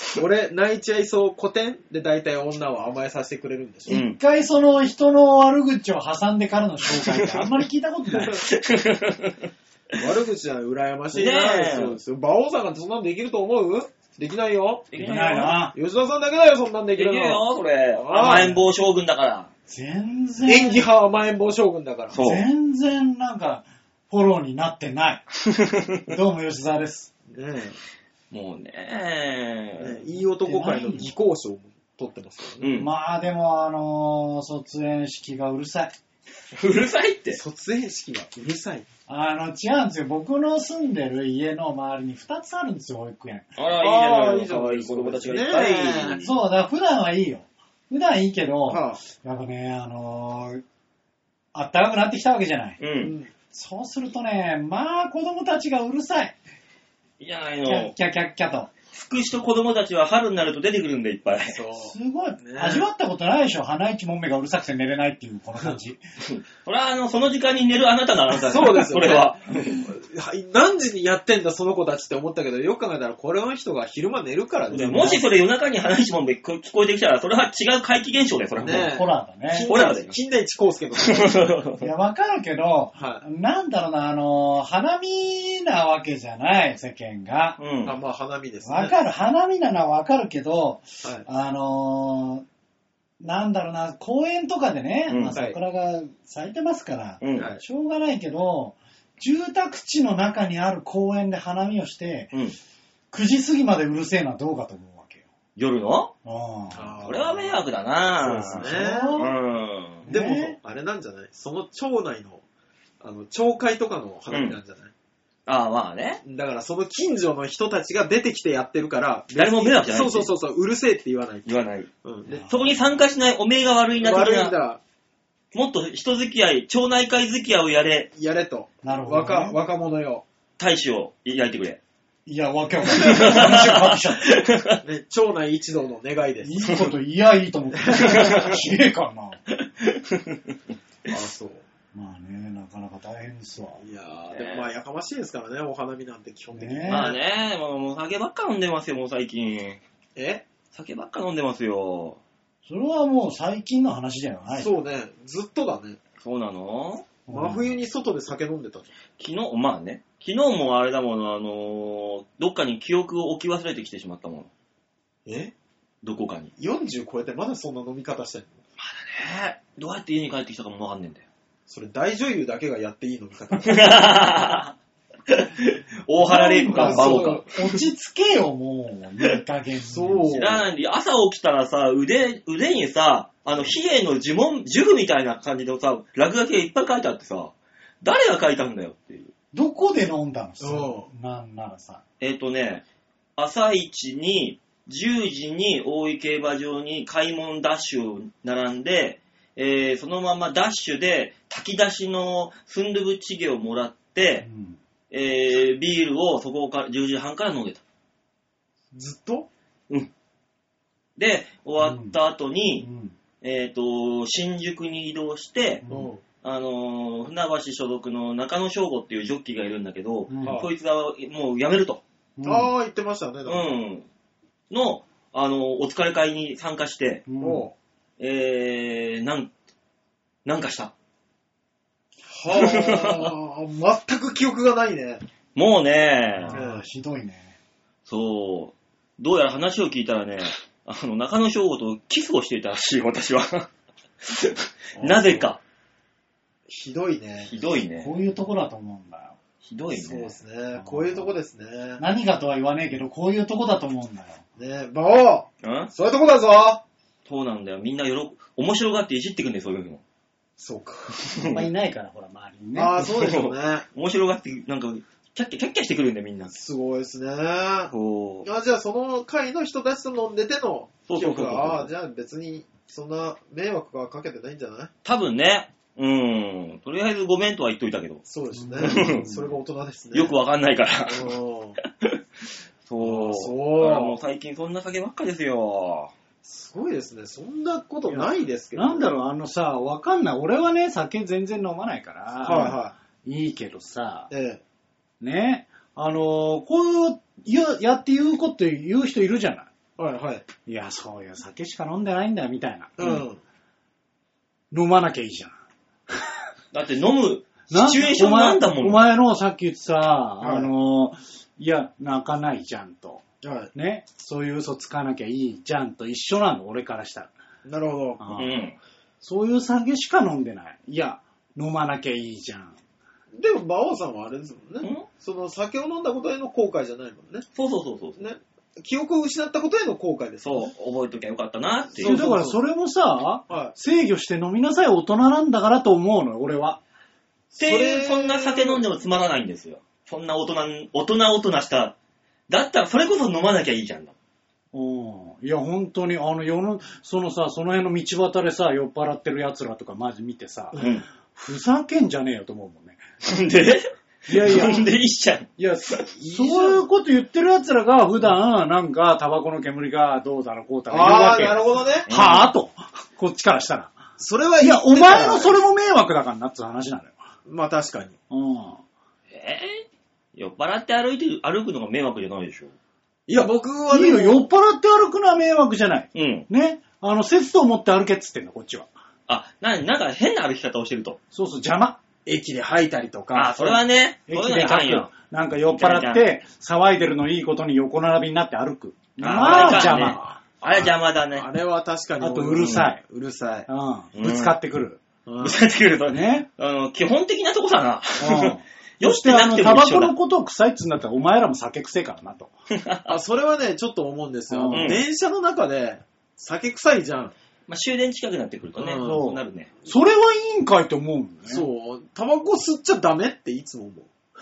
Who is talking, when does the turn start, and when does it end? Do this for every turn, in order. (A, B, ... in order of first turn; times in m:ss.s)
0:00.2-0:04.0 A
0:03.9-0:04.2 B
0:03.9-0:08.4 C
0:06.9-0:07.5 B
0:08.3-0:09.5 B
0:10.0-0:14.9 A
0:11.1-0:12.0 B
0:14.9-0:15.6 B
0:15.0-0:15.7 C
0:15.7-0:18.6 A
0:17.0-0:19.5 B
0:19.7-0:20.8 C
0:20.5-0:22.2 A
0:22.1-0:22.4 B
0:22.2-0:25.3 C
0:25.5-0:26.0 B
0:26.1-0:27.1 C
0:27.3-0:27.8 A
0:28.3-0:30.0 B
0:29.8-0:32.7 A
0:30.5-0:31.1 C
0:32.6-0:32.9 B
0:32.8-0:36.0 C
0:36.5-0:37.4 B
0:37.3-0:38.9 A
0:39.1-0:43.5 C
0:43.6-0:46.3 B
0:43.8-0:46.2 A
0:46.2-0:50.6 C
0:48.7-0:49.0 A
0:51.5-0:52.8 C
0:52.8-0:53.2 B
0:53.0-0:53.3 A
0:53.5-0:56.4 C
0:57.2-0:57.9 B
0:57.6-0:58.7 C
0:58.9-1:01.6 B
1:01.5-1:02.9 A
1:01.8-1:06.0 C
1:06.2-1:09.8 B
1:08.4-1:15.2 A
1:14.7-1:18.9 B
1:18.6-1:19.7 C
1:18.6-1:21.6 A
1:19.7-1:20.2 B
1:21.0-1:21.9 B
1:21.8-1:27.6 C
1:23.0-1:23.2 A
1:27.6-1:28.0 B
1:27.8-1:28.9 A
1:28.6-1:32.4 C
1:33.2-1:42.3 C
1:35.1-1:35.4 B
1:37.2-1:37.5 B
1:37.4-1:37.6 A
1:43.1-1:45.2 C
1:45.6-1:46.1 B
1:46.2-1:46.9 C
1:46.7-1:47.6 A
1:47.0-1:50.1 B
1:48.2-1:49.3 A
1:48.5-1:49.3 C
1:50.1-1:50.6 C
1:50.1-1:52.4 A
1:53.0-1:54.9 A
1:54.3-1:54.6 B
1:55.5-1:56.2 B
1:56.2-2:01.5 A
1:59.4-2:00.3 B
2:01.5-2:01.9 B
2:02.0-2:02.4 A
2:02.3-2:02.6 C
2:02.5-2:04.6 B
2:04.0-2:04.8 A
2:05.5-2:08.1 B
2:08.2-2:10.2 A
2:08.8-2:09.6 C
2:10.6-2:11.8 B
2:12.3-2:14.4 C
2:12.9-2:14.8 B
2:14.8-2:16.7 A
2:16.4-2:19.4 C
2:17.8-2:18.4 A
2:18.1-2:18.5 B
2:19.8-2:20.6 B
2:21.1-2:21.6 A
2:21.9-2:23.8 C
2:23.8-2:27.2 A
2:24.3-2:24.7 B
2:26.6-2:27.1 C
2:26.9-2:29.8 B
2:30.2-2:30.5 A
2:30.7-2:32.2 B
2:32.6-2:34.8 C
2:34.6-2:36.0 A
2:36.2-2:37.1 B
2:37.3-2:37.7 C
2:37.3-2:38.9 A
2:39.2-2:44.5 B
2:45.3-2:45.5 A
2:46.0-2:46.5 B
2:46.6-2:48.6 A
2:48.8-2:51.2 B
2:51.7-2:54.2 A
2:53.6-2:54.7 B
2:55.3-2:57.8 B
2:56.2-3:00.3 C
2:56.7-2:57.5 A
2:59.9-3:00.6 A
3:00.3-3:09.3 B
3:09.5-3:12.0 C
3:10.6-3:11.1 A
3:12.2-3:12.8 B
3:13.4-3:24.5 B
3:24.4-3:24.8 C
3:25.1-3:27.8 B
3:28.9-3:29.5 A
3:31.2-3:32.9 B
3:31.8-3:32.2 C
3:32.8-3:33.2 C
3:33.4-3:35.8 B
3:35.8-3:36.1 C
3:35.9-3:36.2 A
3:36.4-3:42.0 B
3:40.3-3:40.6 C
3:40.4-3:40.7 A
3:42.4-3:42.7 C
3:42.4-3:43.7 A
3:43.5-3:44.1 B
3:44.7-3:47.2 B
3:47.3-3:47.7 C
3:47.4-3:47.7 A
3:48.2-3:49.5 B
3:50.4-3:50.9 B
3:52.3-3:55.2 A
3:52.5-3:53.3 B
3:55.6-3:56.6 B
3:56.4-3:57.6 C
3:56.5-3:56.9 A
3:58.1-4:03.7 B
4:04.2-4:05.6 B
4:05.0-4:05.5 A
4:06.7-4:07.5 A
4:07.4-4:08.1 B
4:08.0-4:09.4 C
4:09.6-4:10.4 B
4:09.9-4:12.0 A
4:10.8-4:11.3 C
4:12.0-4:14.4 C
4:14.6-4:16.8 A
4:15.6-4:15.9 B
4:17.3-4:20.0 B
4:20.6-4:21.6 A
4:21.4-4:21.7 B
4:21.5-4:23.0 C
4:22.8-4:23.9 A
4:23.0-4:26.5 B
4:26.5-4:34.9 A
4:27.9-4:28.5 B
4:31.1-4:31.9 B
4:35.0-4:38.2 B
4:38.3-4:40.4 A
4:38.6-4:39.5 C
4:38.8-4:39.2 B
4:40.1-4:41.4 B
4:41.1-4:41.8 A
4:42.9-4:46.1 B
4:43.0-4:44.2 A
4:46.4-4:49.1 A
4:48.1-4:54.3 C
4:52.4-4:52.9 A
4:54.3-4:54.6 A
4:55.2-4:59.7 C
5:00.0-5:00.4 A
5:00.7-5:03.2 C
5:03.0-5:03.4 A
5:04.7-5:05.6 C
5:06.7-5:09.1 B
5:07.7-5:17.3 C
5:10.4-5:10.7 A
5:13.4-5:13.7 A
5:17.6-5:18.4 A
5:18.2-5:18.5 C
5:18.4-5:18.8 B
5:19.2-5:22.8 C
5:23.3-5:27.5 A
5:24.8-5:25.1 B
5:27.6-5:28.2 B
5:28.2-5:30.7 A
5:30.4-5:32.2 B
5:31.9-5:32.6 A
5:32.0-5:36.8 C
5:33.5-5:33.7 A
5:37.5-5:38.8 A
5:37.6-5:42.0 B
5:42.5-5:44.1 B
5:44.7-5:53.0 C
5:50.7-5:51.0 A
5:50.8-5:51.0 B
5:53.2-5:56.0 B
5:54.3-5:54.9 C
5:55.6-6:04.0 C
5:56.2-5:56.8 A
6:00.9-6:02.1 A
6:02.1-6:02.5 B
6:04.2-6:05.6 A
6:04.6-6:07.2 C
6:07.5-6:08.2 A
6:08.3-6:08.8 C
6:09.3-6:12.7 B
6:13.3-6:14.5 A
6:13.9-6:18.9 C
6:16.1-6:16.5 B
6:19.3-6:21.2 B
6:21.3-6:22.0 C
6:22.3-6:23.8 A
6:23.3-6:25.1 B
6:24.3-6:30.2 C
6:25.7-6:26.2 B
6:29.2-6:31.5 B
6:29.4-6:33.7 A
6:32.2-6:33.0 C
6:32.6-6:32.9 B
6:33.7-6:35.0 C
6:34.1-6:34.6 B
6:35.3-6:35.6 A
6:35.4-6:40.1 B
6:36.1-6:36.5 C
6:38.2-6:42.5 C
6:42.7-6:43.2 B
6:43.1-6:47.3 A
6:44.5-6:45.0 C
6:44.7-6:45.0 B
6:47.7-6:49.7 B
6:48.8-6:49.3 A
6:49.0-6:51.7 C
6:51.5-6:54.1 A